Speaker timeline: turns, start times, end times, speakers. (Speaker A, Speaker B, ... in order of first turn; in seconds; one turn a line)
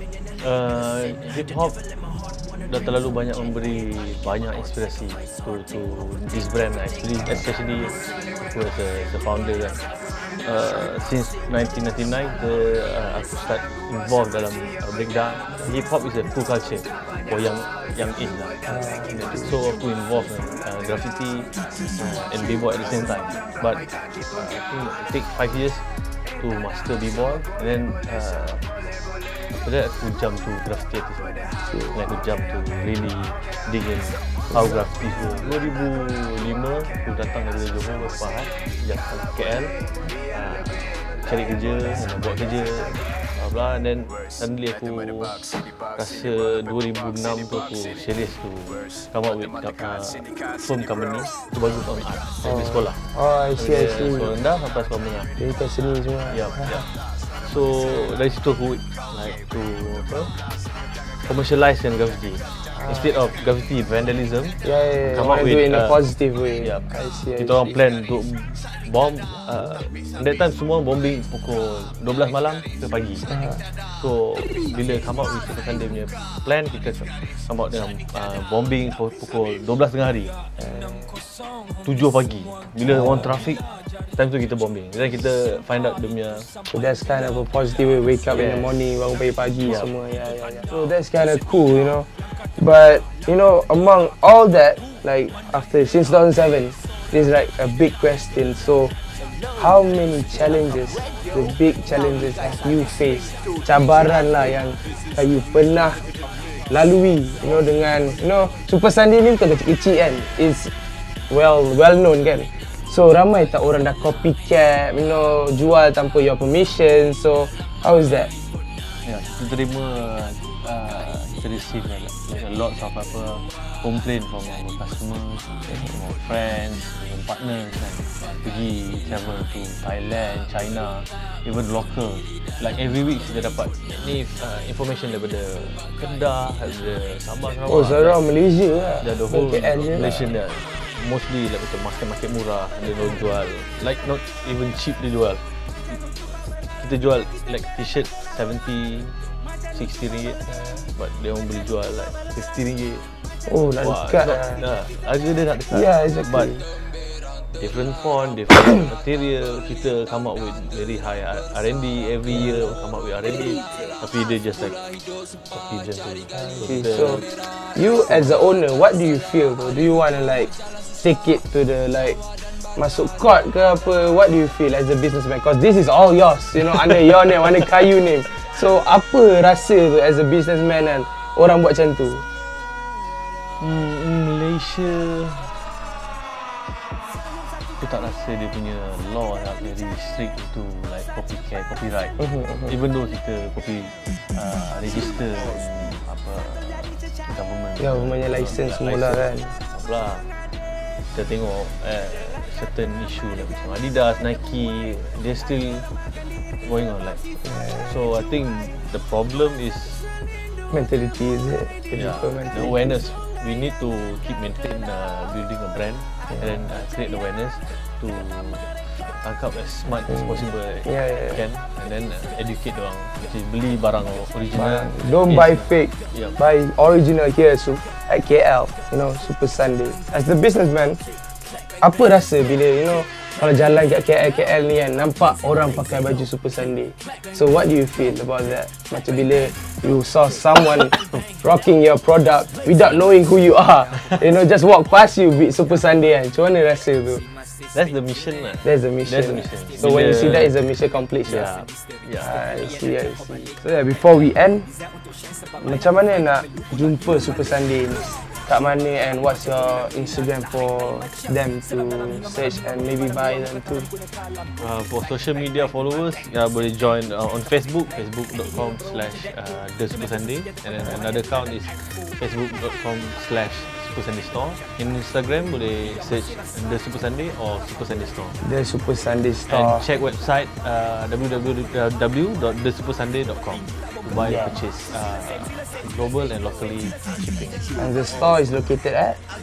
Speaker A: 0.4-1.8
Speaker A: 2.6-8.0
Speaker A: 8.5-9.8
Speaker A: 10.4-28.7
Speaker B: 18.7-19.5
Speaker A: 29.5-39.7
Speaker A: 40.3-55.3
Speaker B: 52.4-54.3
Speaker B: 55.4-56.8
Speaker A: 56.3-60.3
Speaker A: 61.2-66.0
Speaker B: 62.7-63.1
Speaker B: 64.6-67.8
Speaker A: 66.6-73.3
Speaker B: 73.3-73.6
Speaker A: 73.8-80.3
Speaker B: 80.6-81.2
Speaker A: 81.8-83.6
Speaker A: 84.1-86.5
Speaker B: 86.7-92.1
Speaker A: 88.3-89.0
Speaker A: 89.6-89.9
Speaker B: 92.6-98.9
Speaker B: 99.5-106.0
Speaker B: 106.7-110.7
Speaker B: 111.3-118.3
Speaker A: 119.0-138.2
Speaker B: 137.7-140.3
Speaker A: 139.0-146.0
Speaker A: 146.7-153.0
Speaker B: 153.4-154.6
Speaker A: 153.8-156.9
Speaker B: 155.7-156.6
Speaker A: 157.5-164.8
Speaker A: 165.5-167.4
Speaker B: 166.3-167.2
Speaker B: 167.7-172.2
Speaker A: 168.0-168.4
Speaker B: 172.8-182.2
Speaker A: 183.6-185.6
Speaker A: 187.8-200.3
Speaker B: 192.2-192.7
Speaker B: 197.8-199.6
Speaker A: 201.1-205.9
Speaker A: 206.6-210.1
Speaker B: 207.4-207.9
Speaker B: 210.7-213.0
Speaker A: 211.9-226.3
Speaker B: 220.8-221.4
Speaker B: 224.5-231.0
Speaker B: 231.8-247.2
Speaker A: 240.9-241.3
Speaker A: 247.7-250.6
Speaker B: 248.6-251.5
Speaker A: 251.2-252.6
Speaker B: 252.2-254.7
Speaker B: 255.6-263.9
Speaker A: 264.6-278.4
Speaker B: 278.4-279.8
Speaker A: 279.5-287.6
Speaker B: 284.1-284.6
Speaker B: 287.8-289.2